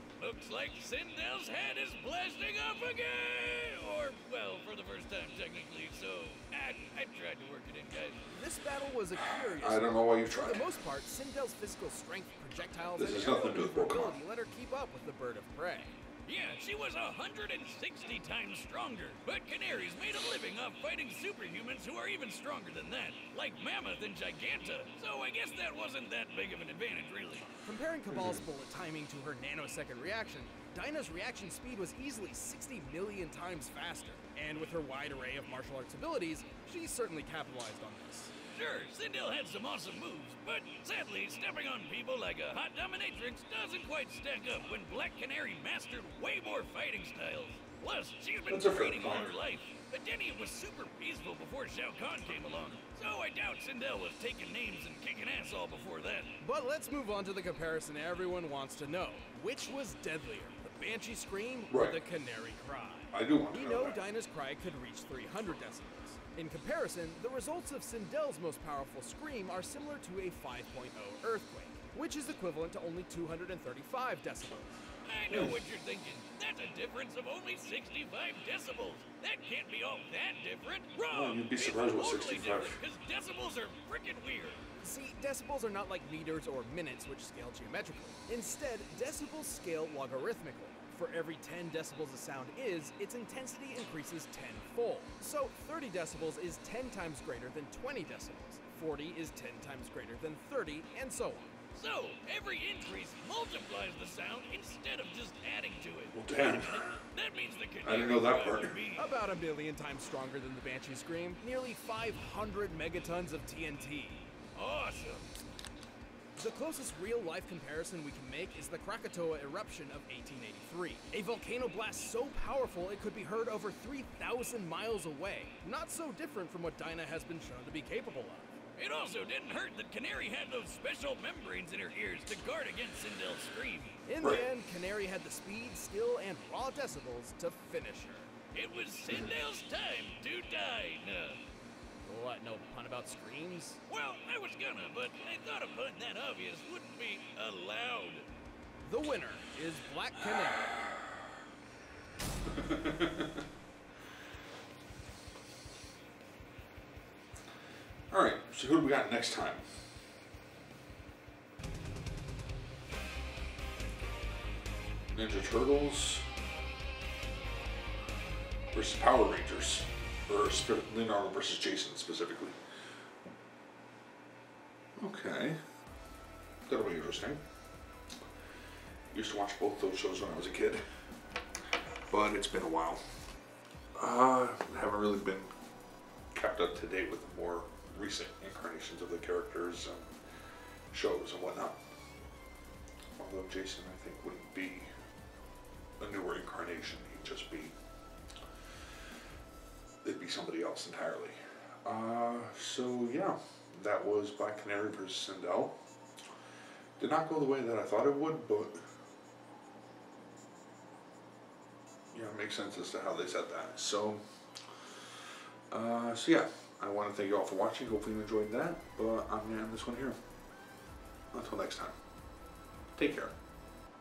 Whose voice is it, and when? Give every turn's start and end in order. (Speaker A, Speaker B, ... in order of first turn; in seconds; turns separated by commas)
Speaker A: 0.2-8.2, Speaker B: 8.3-16.0, Speaker C: 9.4-10.6, Speaker C: 12.9-14.2, Speaker A: 16.3-27.5, Speaker B: 27.6-38.3, Speaker C: 28.1-28.4, Speaker A: 38.5-56.3, Speaker C: 48.5-49.4, Speaker B: 56.4-74.7, Speaker C: 61.7-62.0, Speaker C: 63.1-64.0, Speaker A: 75.0-84.7, Speaker C: 75.3-75.6, Speaker C: 81.1-82.8, Speaker B: 84.8-101.5, Speaker A: 101.7-109.1, Speaker C: 106.1-106.9, Speaker C: 107.8-108.8, Speaker B: 109.0-114.3, Speaker A: 114.5-115.3, Speaker B: 116.4-128.5, Speaker A: 128.8-134.0, Speaker B: 134.1-138.3, Speaker A: 138.5-141.4, Speaker B: 142.1-143.8, Speaker A: 143.9-148.3, Speaker B: 148.8-150.8, Speaker C: 152.6-153.2, Speaker C: 158.1-159.7, Speaker C: 165.1-166.3, Speaker C: 168.7-172.6, Speaker C: 175.0-175.6, Speaker C: 176.7-177.4, Speaker C: 179.1-180.8, Speaker C: 182.1-183.1, Speaker C: 183.9-185.5, Speaker C: 186.3-190.1, Speaker C: 190.9-191.8, Speaker C: 193.2-194.9, Speaker C: 196.0-197.7, Speaker C: 200.0-205.8, Speaker C: 207.0-208.8, Speaker C: 212.1-214.2, Speaker C: 215.7-220.2, Speaker C: 221.3-221.9, Speaker C: 223.0-223.3